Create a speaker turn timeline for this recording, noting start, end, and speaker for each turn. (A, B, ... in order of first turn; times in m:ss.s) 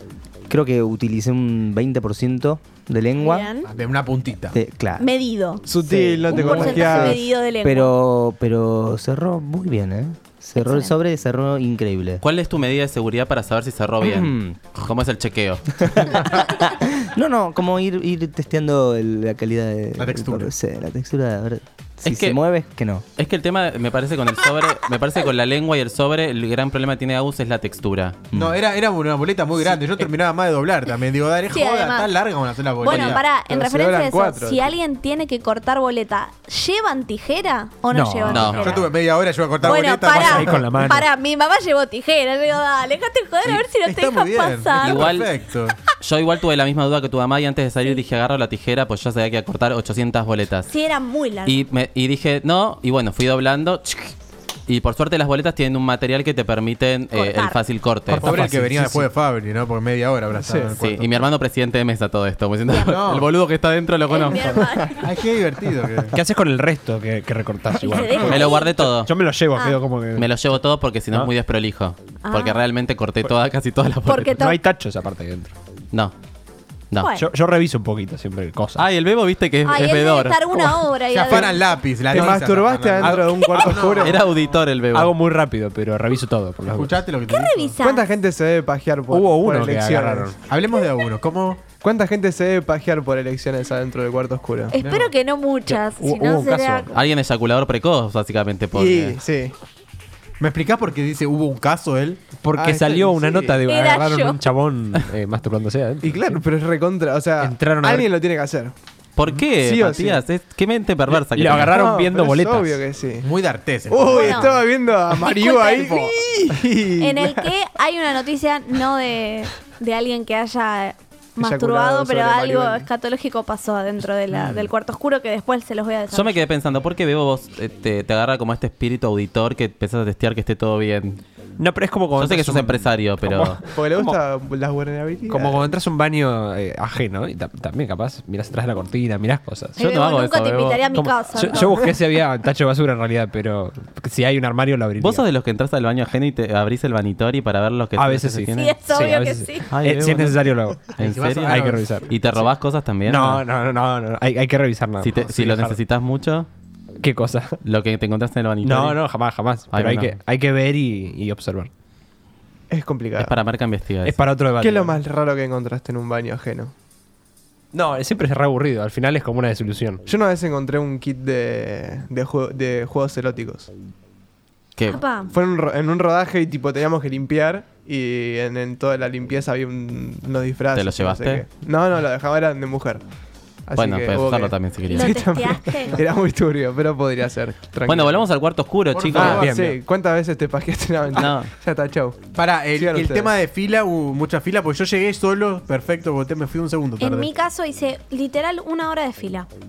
0:00.5-0:03.5 A
0:03.2-0:03.7 B
0:03.7-0:04.6 C
0:04.5-0:05.0 A
0:05.0-0:05.6 B
0:05.6-0:07.2 D
0:05.7-0:06.8 A
0:06.3-0:07.2 C
0:06.3-0:08.0 B
0:07.5-0:12.2 A
0:10.6-0:10.9 B
0:12.2-0:16.4 E
0:14.0-0:14.6 A
0:15.9-0:23.0 A
0:20.0-0:20.5 C
0:22.0-0:22.4 E
0:23.2-0:28.2 E
0:28.3-0:33.2 C
0:31.5-0:32.2 B
0:32.8-0:38.9 B
0:32.9-0:33.2 E
0:33.4-0:34.7 D
0:37.9-0:38.6 F
0:38.2-0:38.8 E
0:38.6-0:40.9 C
0:39.6-0:45.1 B
0:39.7-0:41.1 F
0:43.4-0:45.8 C
0:44.8-0:45.3 E
0:46.0-0:50.7 E
0:50.7-0:51.6 B
0:51.4-0:54.1 E
0:54.7-0:58.4 E
0:57.1-0:57.6 B
0:58.1-0:59.1 F
0:58.2-1:01.1 C
1:00.4-1:00.8 D
1:00.8-1:04.7 E
1:02.8-1:03.3 C
1:04.1-1:05.0 B
1:05.0-1:06.2 C
1:06.1-1:11.3 F
1:07.8-1:08.7 B
1:08.1-1:09.1 E
1:09.5-1:09.8 B
1:10.2-1:14.5 E
1:12.2-1:12.6 B
1:14.0-1:14.6 B
1:14.4-1:15.5 F
1:16.9-1:17.2 E
1:17.0-1:17.3 B
1:17.2-1:18.9 F
1:18.8-1:20.6 E
1:19.6-1:21.6 B
1:21.1-1:24.5 C
1:22.0-1:24.2 D
1:23.2-1:23.5 B
1:23.9-1:25.1 E
1:24.9-1:27.0 F
1:26.7-1:27.8 C
1:27.3-1:28.1 B
1:27.8-1:30.3 D
1:29.1-1:30.3 F
1:30.4-1:31.7 C
1:31.8-1:34.7 D
1:34.7-1:36.9 B
1:34.8-1:35.1 C
1:35.7-1:36.9 F
1:36.9-1:39.2 E
1:38.7-1:39.5 D
1:40.4-1:42.2 C
1:42.4-1:46.4 F
1:42.5-1:43.6 D
1:43.7-1:44.4 B
1:46.0-1:48.7 D
1:47.4-1:48.1 F
1:49.2-1:51.8 E
1:49.5-1:50.2 D
1:51.1-1:52.8 F
1:51.6-1:53.3 D
1:53.2-1:54.6 C
1:53.9-1:57.5 D
1:54.1-1:54.5 B
1:55.1-1:56.2 B
1:57.0-2:06.4 B
2:01.4-2:02.9 D
2:06.1-2:11.2 E
2:11.6-2:14.2 F
2:12.2-2:13.6 E
2:13.6-2:15.7 D
2:15.3-2:19.8 F
2:19.8-2:20.9 E
2:19.8-2:21.9 B
2:20.9-2:25.2 F
2:25.0-2:28.8 E
2:28.0-2:32.5 F
2:28.5-2:29.7 B
2:29.7-2:33.4 E
2:31.0-2:32.0 C
2:33.0-2:35.8 F
2:35.0-2:36.5 E
2:37.0-2:37.6 F
2:37.6-2:39.0 E
2:38.6-2:41.7 F
2:39.7-2:40.2 E
2:42.7-2:43.4 D
2:43.2-2:44.2 E
2:44.0-2:45.0 F
2:44.5-2:46.7 D
2:47.7-2:50.0 F
2:50.0-2:53.7 D
2:54.8-2:55.0 E
2:54.9-2:55.3 B
2:55.2-3:03.0 D
3:00.7-3:01.4 E
3:03.6-3:08.3 D
3:03.7-3:05.2 E
3:04.9-3:06.0 B
3:07.8-3:09.4 E
3:08.9-3:09.8 C
3:09.2-3:09.7 F
3:09.2-3:13.3 D
3:11.1-3:11.5 E
3:12.3-3:17.3 C
3:17.0-3:19.5 B